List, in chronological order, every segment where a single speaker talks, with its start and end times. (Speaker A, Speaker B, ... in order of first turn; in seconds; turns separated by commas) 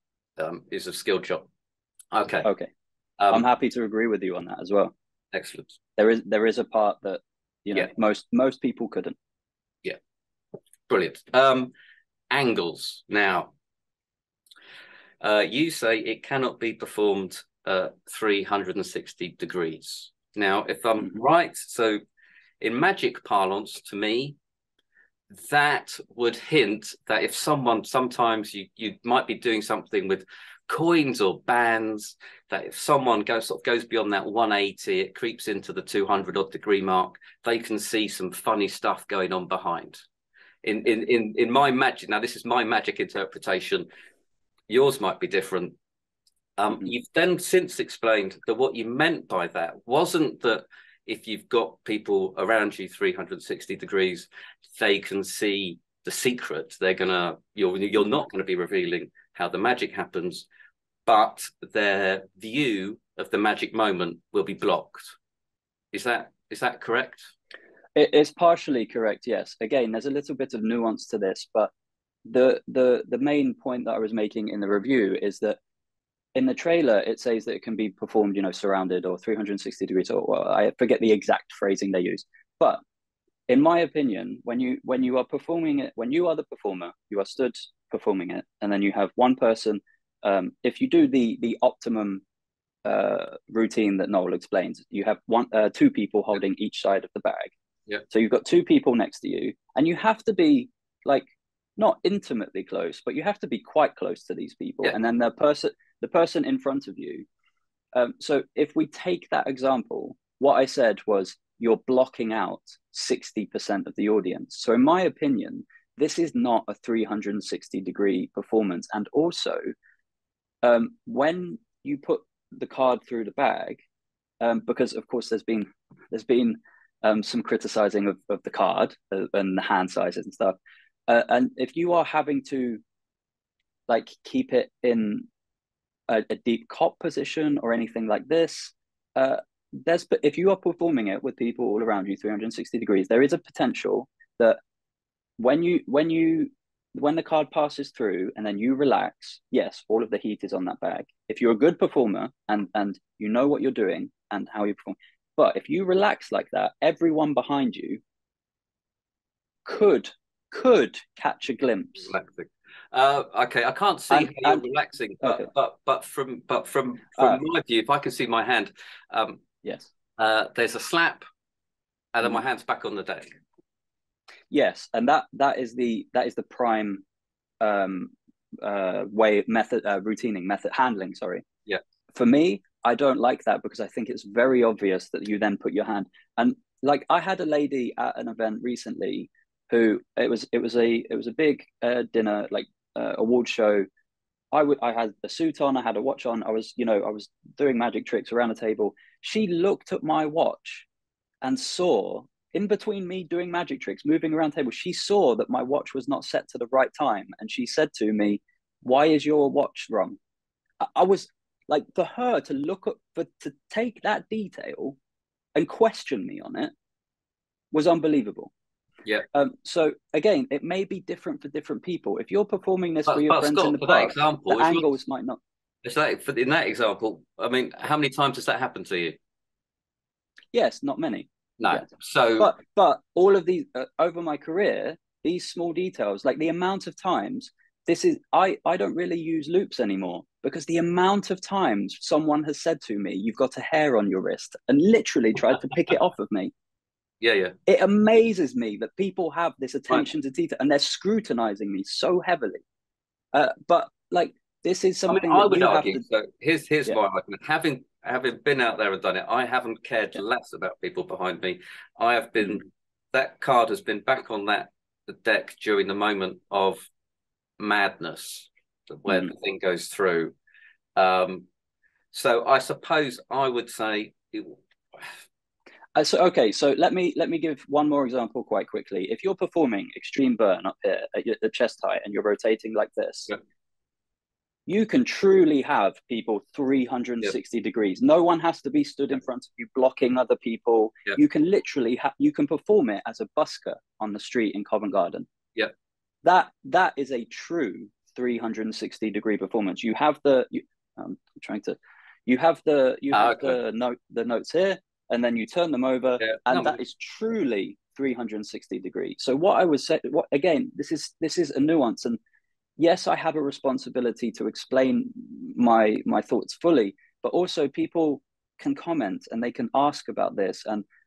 Speaker A: 0.4-1.5, Speaker A: 2.1-2.5, Speaker B: 2.5-2.7, Speaker B: 3.3-4.9, Speaker A: 5.3-5.8, Speaker B: 6.0-9.2, Speaker A: 10.9-11.7, Speaker A: 12.3-13.5, Speaker A: 15.2-22.0, Speaker A: 22.6-24.4, Speaker A: 25.3-40.0, Speaker A: 40.6-43.9, Speaker A: 44.7-45.8, Speaker A: 46.6-60.5, Speaker A: 61.1-65.2, Speaker A: 65.9-67.3, Speaker B: 68.0-71.7, Speaker B: 72.2-75.6, Speaker B: 76.3-82.8, Speaker B: 83.5-92.2, Speaker B: 92.8-97.5, Speaker B: 98.1-107.3, Speaker B: 107.9-119.7, Speaker B: 120.6-123.8, Speaker B: 124.4-132.8, Speaker B: 133.9-135.3, Speaker B: 136.1-144.6, Speaker B: 145.4-158.0, Speaker B: 159.7-162.1, Speaker A: 162.1-169.4, Speaker B: 164.1-164.6, Speaker B: 165.2-165.5, Speaker B: 167.2-167.4, Speaker B: 169.6-169.9, Speaker A: 170.2-171.2, Speaker A: 172.1-173.4, Speaker B: 174.5-177.0, Speaker B: 177.6-181.4, Speaker B: 182.1-193.9, Speaker B: 194.5-200.9, Speaker B: 201.4-210.2, Speaker B: 210.8-215.0, Speaker B: 215.6-216.7, Speaker B: 217.7-218.5, Speaker B: 219.3-225.4, Speaker A: 223.1-224.9, Speaker A: 225.8-229.2, Speaker B: 230.5-231.8, Speaker A: 231.6-232.5, Speaker B: 232.4-246.5, Speaker A: 247.2-247.6, Speaker B: 247.7-252.6, Speaker B: 253.3-256.0, Speaker A: 255.1-266.9, Speaker A: 267.6-270.4, Speaker A: 271.0-271.5, Speaker A: 272.1-275.1, Speaker B: 276.0-283.3, Speaker B: 284.7-295.3, Speaker B: 296.2-312.2, Speaker A: 303.1-303.6, Speaker A: 306.2-306.8, Speaker B: 312.8-320.9